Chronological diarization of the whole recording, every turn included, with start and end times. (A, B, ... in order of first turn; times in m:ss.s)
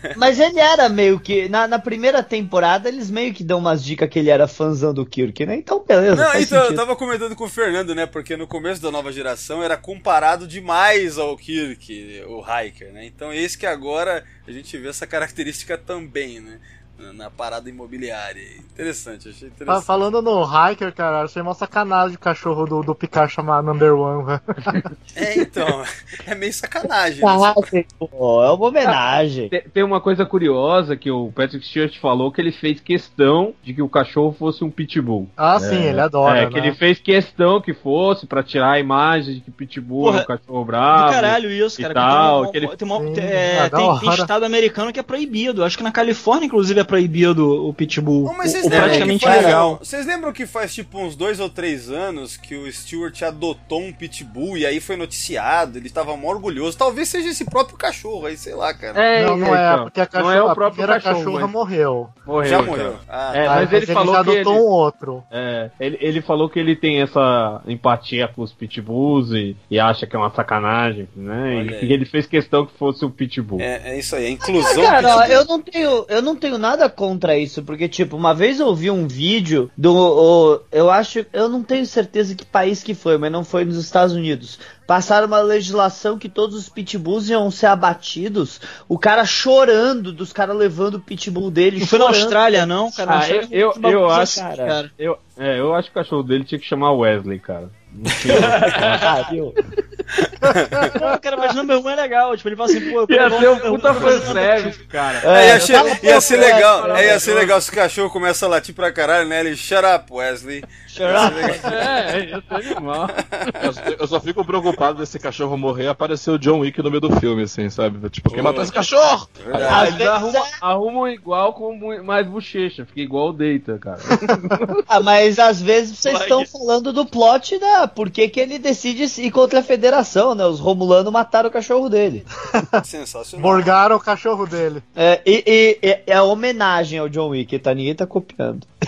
0:00.1-0:06.8 A
0:06.1-0:20.0 B
0:19.7-0:24.9 C
0:25.1-0:27.7 B
0:27.2-0:29.5 A
0:28.8-0:42.7 D
0:35.4-0:36.8 C
0:40.0-0:40.3 E
0:40.9-0:49.8 E
0:43.0-0:44.3 C
0:48.2-0:59.0 B
0:48.7-0:49.5 D
0:59.0-1:01.5 D
0:59.1-1:02.1 C
1:02.3-1:04.6 D
1:02.4-1:03.7 B
1:03.4-1:05.2 C
1:05.3-1:13.7 D
1:11.5-1:11.9 B
1:13.6-1:15.4 B
1:14.4-1:32.7 A
1:31.8-1:34.9 E
1:33.1-1:34.4 D
1:34.4-1:34.8 A
1:35.0-1:39.1 D
1:38.8-1:39.6 A
1:40.5-1:40.9 B
1:41.0-1:44.8 E
1:43.1-1:47.5 D
1:45.2-1:47.5 A
1:45.3-1:52.0 B
1:50.9-1:51.8 A
1:51.6-1:53.6 D
1:53.6-2:00.1 F
1:58.3-1:58.8 B
1:59.4-2:00.0 B
1:59.7-2:00.5 A
1:59.7-2:04.8 D
2:04.9-2:12.3 A
2:06.1-2:06.4 E
2:12.6-2:12.8 C
2:12.8-2:13.7 B
2:13.4-2:14.8 C
2:15.0-2:18.7 A